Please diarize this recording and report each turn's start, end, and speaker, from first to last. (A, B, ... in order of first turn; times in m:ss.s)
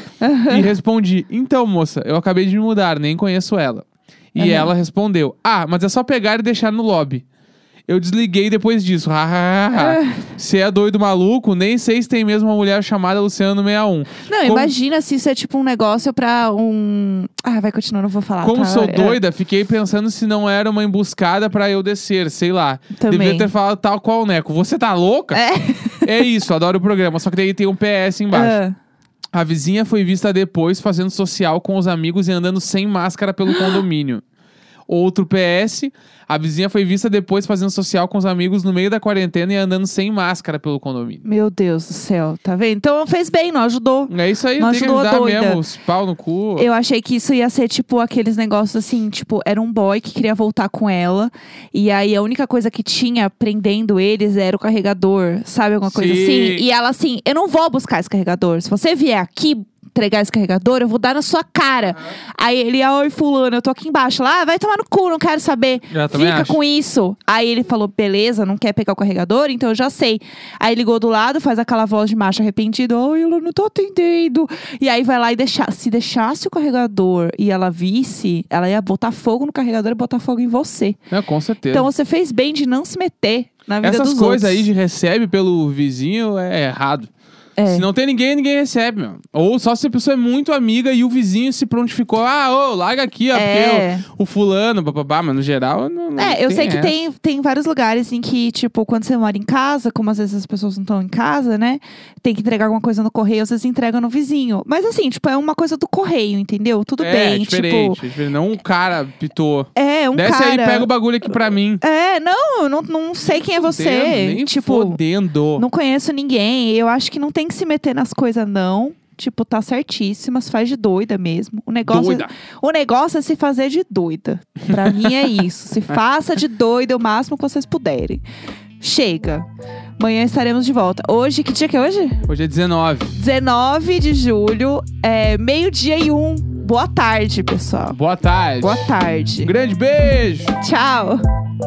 0:00.2-0:00.7 A
0:00.5-0:07.2 B
0:04.4-0:04.7 A
0:07.9-0:14.7 B
0:09.7-0:10.3 A
0:14.3-0:19.2 A
0:18.4-0:25.4 B
0:22.9-0:23.5 A
0:25.3-0:26.2 A
0:26.0-0:28.6 B
0:28.3-0:28.8 A
0:29.3-0:34.2 B
0:34.9-0:41.2 B
0:41.2-0:45.6 A
0:44.1-0:46.7 B
0:46.6-1:21.0 A
0:55.8-0:56.6 B
1:05.9-1:06.6 B
1:21.1-1:21.9 B
1:21.7-1:24.7 A
1:23.8-1:27.1 B
1:27.6-1:27.8 A
1:27.7-1:36.9 B
1:33.3-1:34.0 A
1:36.2-1:48.0 A
1:47.0-1:51.8 B
1:49.8-1:50.9 A
1:51.8-1:55.0 A
1:53.3-1:55.6 B
1:55.6-2:08.2 A
2:01.8-2:02.3 B
2:04.7-2:05.3 B
2:08.8-2:09.4 A
2:10.0-2:12.2 A
2:12.3-2:13.2 B
2:13.2-2:18.0 A
2:17.9-2:20.6 B
2:18.6-2:19.5 A
2:20.6-2:21.2 A